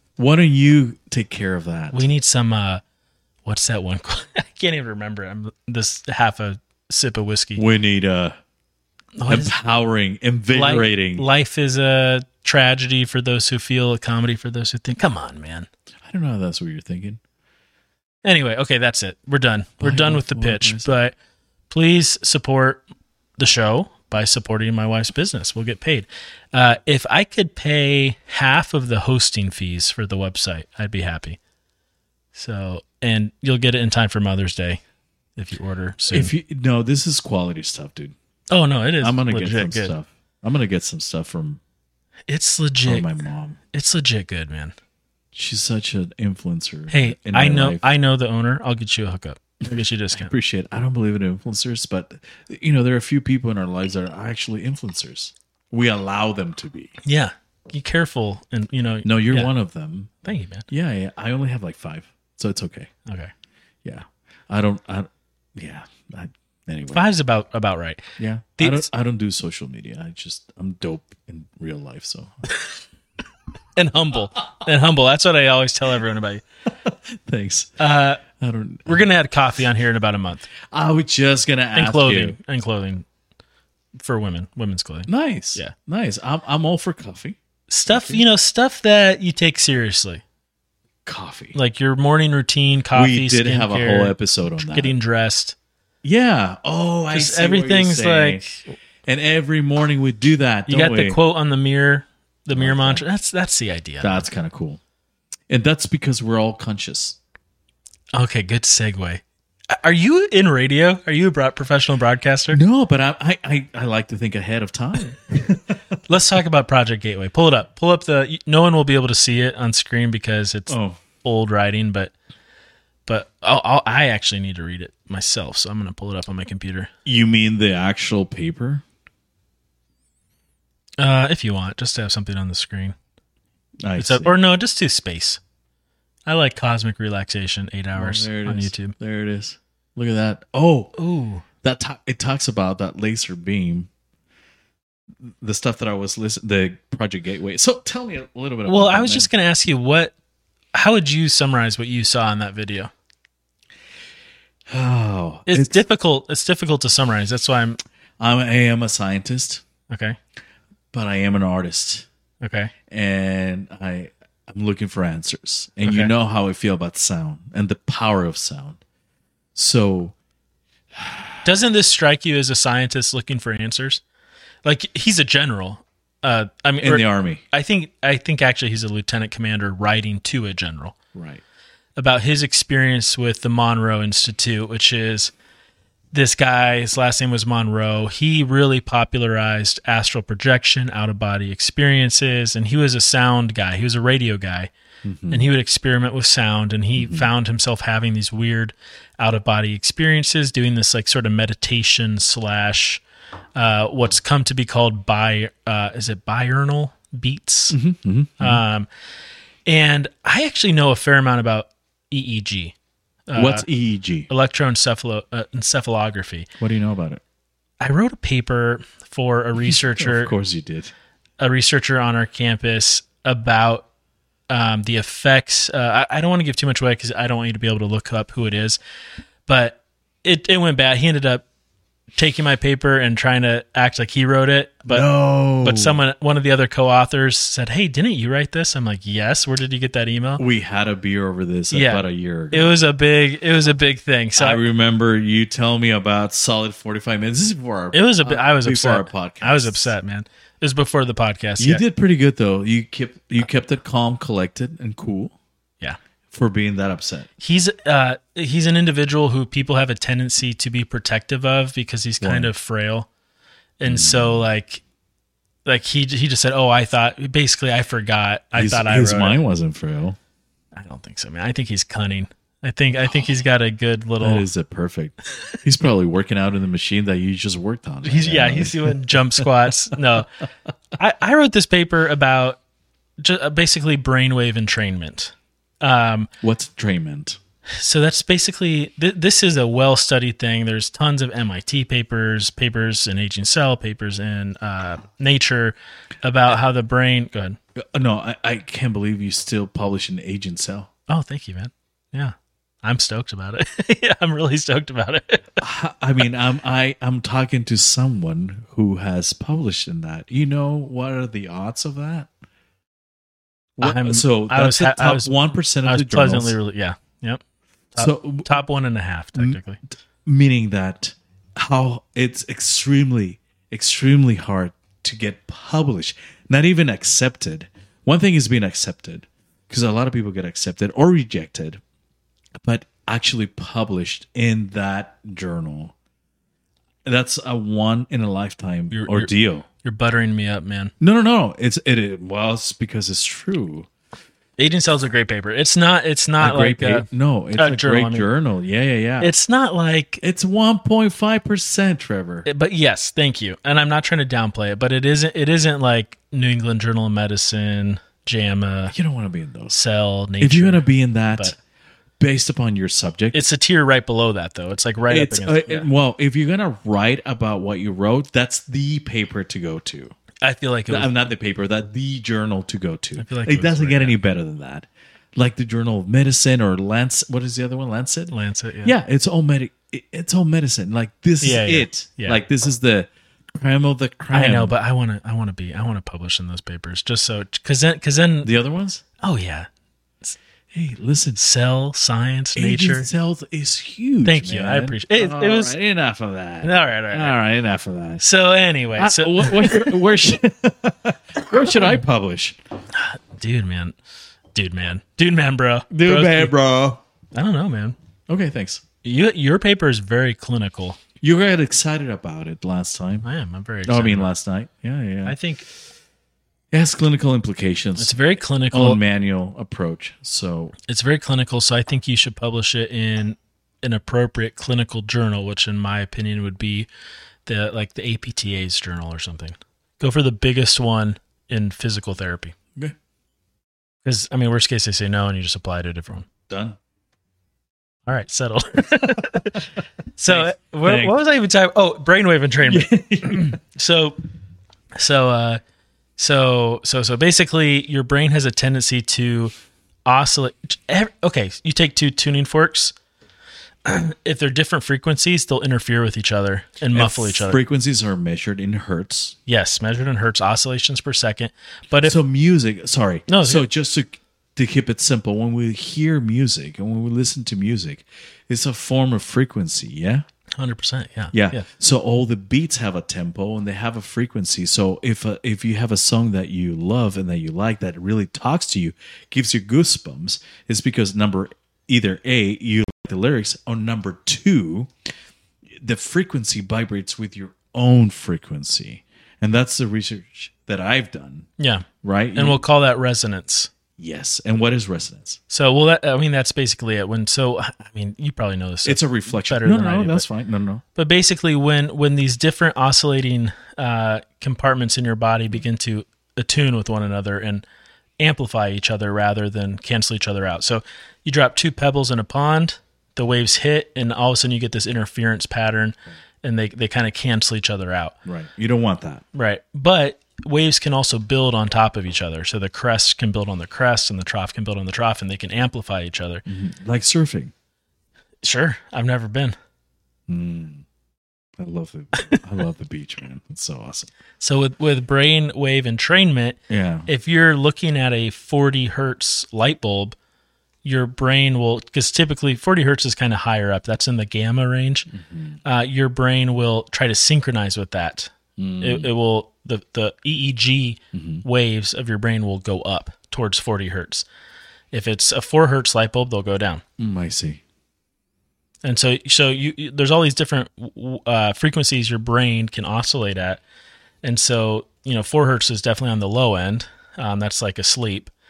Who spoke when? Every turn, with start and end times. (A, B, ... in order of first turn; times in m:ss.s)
0:00.2-0:02.1 A
0:01.9-0:02.8 B
0:03.4-0:07.6 B
0:07.6-0:08.4 A
0:09.2-0:09.5 B
0:09.3-0:11.3 A
0:10.5-0:15.7 B
0:16.0-0:17.2 A
0:18.2-0:21.2 B
0:19.8-0:21.0 A
0:21.7-0:22.8 B
0:23.4-0:31.4 B
0:32.4-0:34.8 B
0:35.4-0:36.3 B
0:36.1-0:38.2 A
0:38.5-0:39.9 B
0:39.0-0:41.6 A
0:42.3-0:43.1 B
0:42.9-0:43.6 A
0:43.7-0:44.8 B
0:45.3-0:47.9 A
0:46.9-0:50.3 B
0:50.1-0:56.9 A
0:57.0-0:59.5 B
0:59.0-1:00.2 A
1:00.2-1:00.7 B
1:00.7-1:02.9 A
1:03.1-1:03.3 B
1:03.8-1:07.0 A
1:06.9-1:08.1 B
1:08.2-1:12.4 A
1:08.6-1:08.9 B
1:13.8-1:16.4 B
1:16.9-1:19.1 A
1:17.8-1:18.2 B
1:18.9-1:20.5 B
1:20.6-1:22.4 A
1:21.8-1:23.1 B
1:24.0-1:25.8 B
1:25.1-1:28.2 A
1:27.7-1:30.2 B
1:31.0-1:31.6 A
1:31.5-1:35.6 B
1:32.9-1:35.0 A
1:36.0-1:38.5 A
1:37.1-1:38.6 B
1:39.1-1:41.2 A
1:40.7-1:44.2 B
1:42.5-1:43.0 A
1:44.0-1:44.8 A
1:45.5-1:47.2 A
1:48.2-1:52.6 B
1:52.5-1:55.8 A
1:56.1-2:02.1 B
2:00.7-2:01.0 A
2:03.1-2:06.9 B
2:07.1-2:08.8 A
2:11.0-2:13.0 B
2:13.8-2:14.3 A
2:14.0-2:15.4 B
2:16.3-2:19.0 B
2:18.0-2:20.9 A
2:21.0-2:21.4 B
2:21.6-2:23.9 A
2:25.2-2:29.3 A
2:28.6-2:30.1 B
2:30.8-2:32.9 B
2:34.7-2:35.8 A
2:35.5-2:37.8 B
2:38.2-2:39.6 A
2:39.9-2:40.2 B
2:40.9-2:42.1 A
2:42.4-2:42.7 B
2:42.9-2:48.8 A
2:45.8-2:46.1 B
2:49.6-2:50.1 A
2:51.4-2:54.0 B
2:54.6-3:01.0 B
2:56.8-2:57.4 A
3:01.1-3:01.4 A
3:02.0-3:05.3 B
3:06.1-3:14.7 B
3:15.0-3:15.5 A
3:15.3-3:23.0 B
3:17.0-3:17.3 A
3:23.6-3:27.8 B
3:27.7-3:28.6 A
3:28.4-3:28.9 B
3:29.7-3:32.8 B
3:33.3-3:33.7 B
3:33.4-3:34.3 A
3:34.3-3:36.5 B
3:36.6-3:37.2 A
3:37.8-3:40.3 B
3:39.6-3:40.9 A
3:41.4-3:43.9 B
3:44.5-3:48.8 B
3:49.5-3:51.4 B
3:52.2-3:55.1 B
3:54.9-3:56.0 A
3:55.6-4:00.4 B
4:00.4-4:02.8 A
4:01.7-4:04.6 B
4:04.4-4:09.9 A
4:07.9-4:11.8 B
4:11.6-4:15.4 A
4:16.3-4:17.3 A
4:17.4-4:23.1 B
4:22.2-4:22.5 A
4:23.8-4:24.8 B
4:23.9-4:24.4 A
4:25.6-4:29.4 B
4:28.5-4:30.2 A
4:30.8-4:34.5 B
4:34.2-4:39.5 A
4:38.0-4:40.3 B
4:41.0-4:42.6 B
4:43.2-4:46.3 B
4:46.4-4:47.4 A
4:47.7-4:57.6 B
4:57.8-5:00.9 A
5:01.1-5:05.6 B
5:05.6-5:12.3 A
5:13.8-5:16.6 A
5:13.8-5:15.3 B
5:15.8-5:17.4 B
5:18.0-5:19.8 B
5:18.0-5:18.5 A
5:20.2-5:31.8 A
5:32.6-5:35.9 A
5:37.0-5:39.7 A
5:38.9-5:39.3 B
5:39.8-5:40.9 B
5:41.0-5:43.9 A
5:44.6-5:48.3 B
5:46.4-5:49.3 A
5:49.2-5:50.2 B
5:50.2-5:52.5 A
5:52.4-5:58.9 B
5:58.9-5:59.8 A
5:59.7-6:01.6 B
6:00.4-6:01.6 A
6:02.2-6:03.4 A
6:03.3-6:05.9 B
6:05.1-6:10.1 A
6:10.4-6:11.1 B
6:10.9-6:24.7 A
6:13.2-6:14.2 B
6:18.3-6:18.9 B
6:21.4-6:22.4 B
6:24.3-6:28.5 B
6:28.4-6:29.0 A
6:29.2-6:29.7 B
6:30.7-6:31.4 A
6:31.4-6:33.1 B
6:32.6-6:38.2 A
6:34.2-6:35.7 B
6:36.6-6:37.4 B
6:38.2-6:40.0 B
6:39.0-6:42.6 A
6:42.9-6:44.0 B
6:44.5-6:46.5 B
6:45.9-6:47.0 A
6:47.3-6:48.0 B
6:48.3-6:48.8 A
6:49.0-6:51.0 B
6:51.2-6:53.3 A
6:53.2-6:54.3 B
6:53.8-6:55.4 A
6:55.2-6:55.6 B
6:56.7-6:58.1 A
6:58.0-6:59.0 B
6:58.7-7:00.8 A
7:00.9-7:06.9 B
7:07.5-7:12.6 B
7:14.0-7:16.3 B
7:16.5-7:16.8 A
7:18.1-7:19.6 B
7:19.2-7:19.6 A
7:20.2-7:24.2 B
7:20.3-7:21.2 A
7:22.6-7:23.6 A
7:25.0-7:25.6 B
7:26.2-7:29.5 B
7:30.1-7:32.9 B
7:33.8-7:37.6 B
7:36.9-7:39.4 A
7:39.5-7:42.2 B
7:42.0-7:50.2 A
7:43.3-7:43.6 B
7:50.6-7:51.6 B
7:51.3-8:04.9 A
8:05.8-8:11.5 A
8:11.6-8:13.7 B
8:12.0-8:12.6 A
8:14.0-8:15.4 A
8:15.5-8:20.2 B
8:18.8-8:20.8 A
8:21.0-8:27.6 B
8:28.2-8:38.2 B
8:38.2-8:39.2 A
8:39.3-8:46.4 B
8:46.5-8:47.5 A
8:48.4-8:49.6 B
8:50.3-8:50.8 A
8:51.6-8:54.1 A
8:54.4-9:00.2 B
8:56.7-8:57.1 A
9:00.8-9:05.1 B
9:05.1-9:05.6 A
9:05.6-9:14.3 B
9:08.6-9:09.1 A
9:11.1-9:11.4 A
9:14.9-9:16.8 B
9:17.0-9:17.6 A
9:18.8-9:23.6 B
9:24.2-9:28.3 B